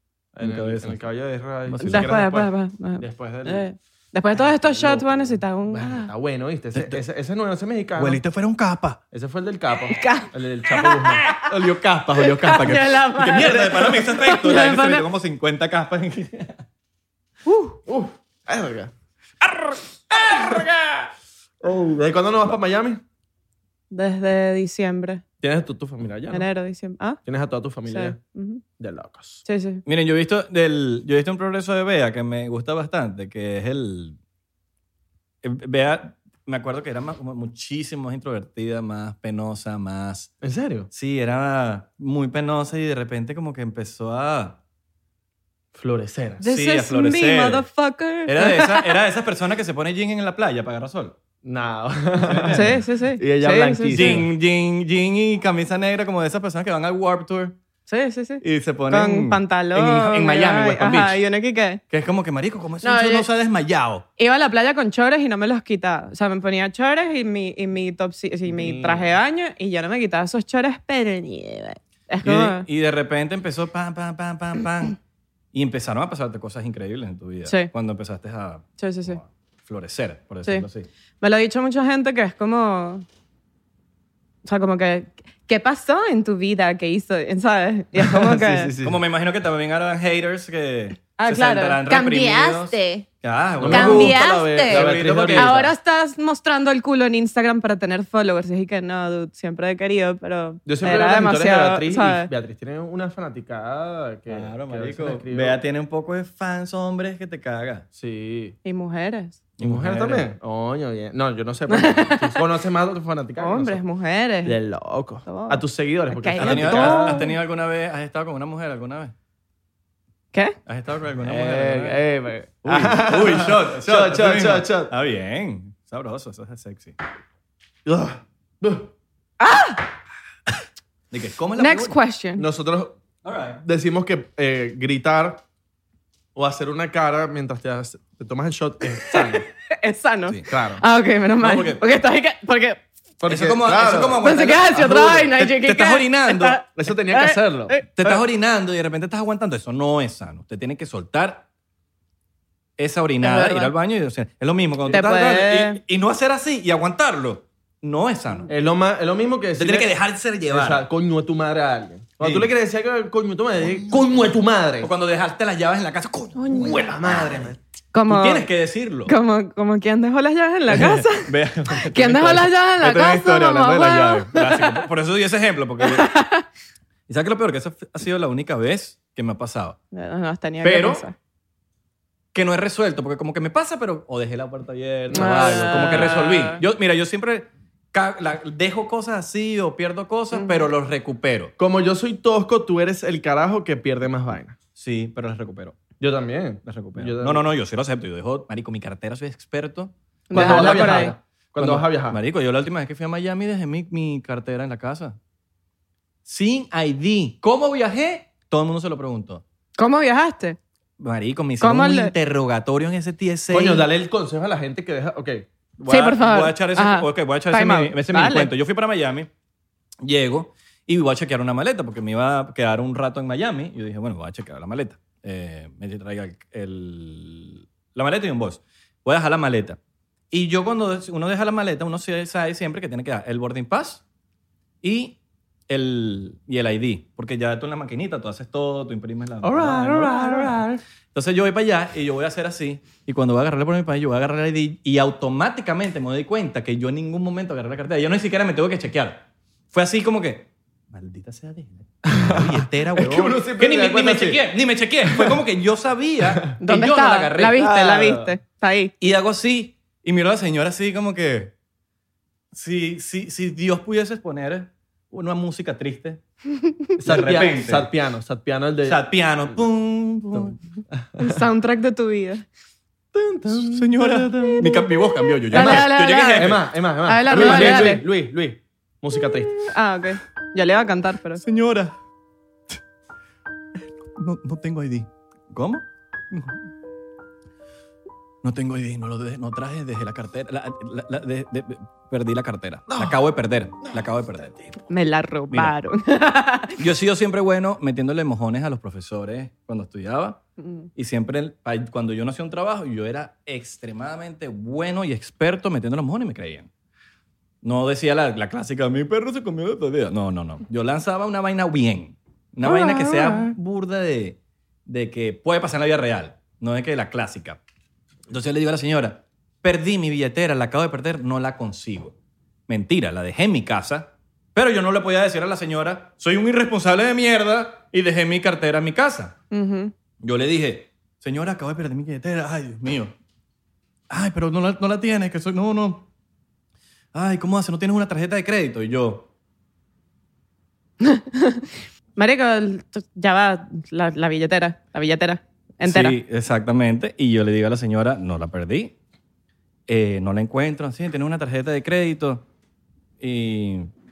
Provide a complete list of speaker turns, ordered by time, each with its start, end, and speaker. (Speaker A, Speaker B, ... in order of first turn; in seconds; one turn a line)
Speaker A: 0.3-3.6
Speaker B: 0.4-1.1
Speaker B: 1.6-2.2
Speaker C: 1.8-6.1
Speaker A: 4.4-8.2
Speaker B: 6.7-7.0
Speaker B: 8.0-9.0
Speaker A: 9.1-11.3
Speaker C: 9.9-11.4
Speaker B: 11.2-16.6
Speaker C: 12.2-15.1
Speaker C: 17.4-17.8
Speaker A: 17.9-18.9
Speaker B: 19.4-21.1
Speaker A: 21.6-23.0
Speaker C: 23.9-25.2
Speaker A: 25.4-26.5
Speaker C: 26.3-27.2
Speaker A: 27.2-28.2
Speaker C: 27.9-28.6
Speaker A: 28.8-29.4
Speaker C: 29.4-29.8
Speaker B: 29.9-34.2
Speaker B: 35.4-40.3
Speaker A: 40.4-40.9
Speaker B: 40.9-44.6
Speaker A: 45.7-46.4
Speaker C: 46.4-49.0
Speaker B: 46.4-47.6
Speaker B: 48.3-51.1
Speaker A: 51.4-54.3
Speaker B: 52.2-52.8
Speaker C: 52.5-54.2
Speaker B: 53.9-57.5
Speaker C: 57.9-61.8
Speaker B: 58.4-61.2
Speaker B: 61.9-64.0
Speaker C: 62.8-63.3
Speaker C: 64.2-72.7
Speaker A: 68.5-69.1
Speaker B: 72.2-75.0
Speaker B: 75.5-80.9
Speaker C: 77.5-77.7
Speaker C: 78.8-79.2
Speaker C: 81.2-83.0
Speaker C: 84.4-88.7
Speaker A: 88.0-89.0
Speaker B: 88.8-95.7
Speaker C: 91.2-93.0
Speaker A: 93.6-95.7
Speaker C: 93.7-102.3
Speaker A: 100.7-105.6
Speaker B: 104.3-107.8
Speaker A: 107.9-108.5
Speaker C: 108.6-109.4
Speaker B: 109.6-110.3
Speaker A: 109.6-113.8
Speaker C: 111.7-112.4
Speaker C: 113.4-114.6
Speaker A: 114.4-117.2
Speaker C: 115.2-117.3
Speaker B: 116.4-119.1
Speaker B: 120.7-122.0
Speaker A: 121.2-124.9
Speaker B: 122.6-127.0
Speaker A: 127.8-128.9
Speaker C: 129.4-129.8
Speaker B: 131.1-132.0
Speaker C: 131.6-132.4
Speaker A: 132.4-133.0
Speaker B: 133.2-133.6
Speaker A: 133.6-135.4
Speaker A: 136.3-139.5
Speaker C: 139.1-142.8
Speaker A: 140.5-140.8
Speaker B: 141.4-141.8
Speaker A: 143.2-144.3
Speaker B: 143.3-146.6
Speaker C: 144.2-147.9
Speaker A: 146.7-148.2
Speaker B: 147.9-151.4
Speaker B: 152.8-158.5
Speaker C: 153.2-153.7
Speaker C: 154.9-155.8
Speaker A: 158.5-159.9
Speaker B: 159.6-160.8
Speaker A: 160.5-164.9
Speaker B: 162.2-162.5
Speaker B: 163.7-164.1
Speaker B: 164.8-167.5
Speaker C: 166.3-167.0
Speaker A: 166.5-167.6
Speaker C: 167.9-168.5
Speaker B: 168.1-169.1
Speaker C: 169.1-174.8
Speaker B: 170.7-176.2
Speaker C: 175.8-176.4
Speaker B: 177.1-179.8
Speaker C: 179.9-181.1
Speaker B: 180.6-181.0
Speaker B: 182.3-191.5
Speaker A: 185.1-186.3
Speaker C: 185.1-186.6
Speaker C: 190.3-190.7
Speaker A: 191.6-194.6
Speaker B: 194.8-195.8
Speaker A: 196.0-197.4
Speaker B: 196.7-205.2
Speaker C: 200.3-201.1
Speaker A: 200.3-202.2
Speaker B: 206.2-209.4
Speaker C: 209.8-210.6
Speaker B: 211.0-213.8
Speaker C: 211.6-212.1
Speaker A: 213.5-215.4
Speaker B: 215.8-219.3
Speaker C: 215.9-218.5
Speaker B: 220.0-229.8
Speaker B: 230.3-234.0
Speaker B: 234.8-235.2
Speaker B: 235.7-257.6
Speaker A: 239.4-240.8
Speaker A: 252.0-254.4
Speaker A: 255.0-255.4
Speaker C: 256.6-258.9
Speaker A: 257.6-258.3
Speaker B: 259.0-261.5
Speaker B: 262.5-266.2
Speaker A: 267.0-269.0
Speaker B: 267.0-267.9
Speaker B: 268.8-270.6
Speaker A: 270.3-271.4
Speaker C: 271.2-272.4
Speaker A: 273.1-274.6
Speaker B: 273.5-276.6
Speaker C: 275.5-276.5
Speaker A: 275.5-279.5
Speaker C: 277.1-278.0
Speaker B: 277.3-278.0
Speaker C: 279.6-281.4
Speaker B: 281.4-282.0
Speaker B: 284.0-286.6
Speaker B: 288.4-294.7
Speaker C: 294.9-296.8
Speaker B: 296.8-300.4
Speaker C: 300.6-300.9
Speaker B: 300.9-306.7
Speaker B: 307.6-317.6
Speaker C: 312.7-313.4
Speaker B: 318.3-322.1
Speaker B: 322.7-329.3
Speaker C: 329.5-329.9
Speaker B: 330.2-333.1
Speaker B: 334.1-336.1
Speaker B: 337.1-339.3
Speaker C: 341.0-346.1
Speaker B: 345.8-348.9
Speaker B: 349.9-352.4
Speaker B: 353.2-353.9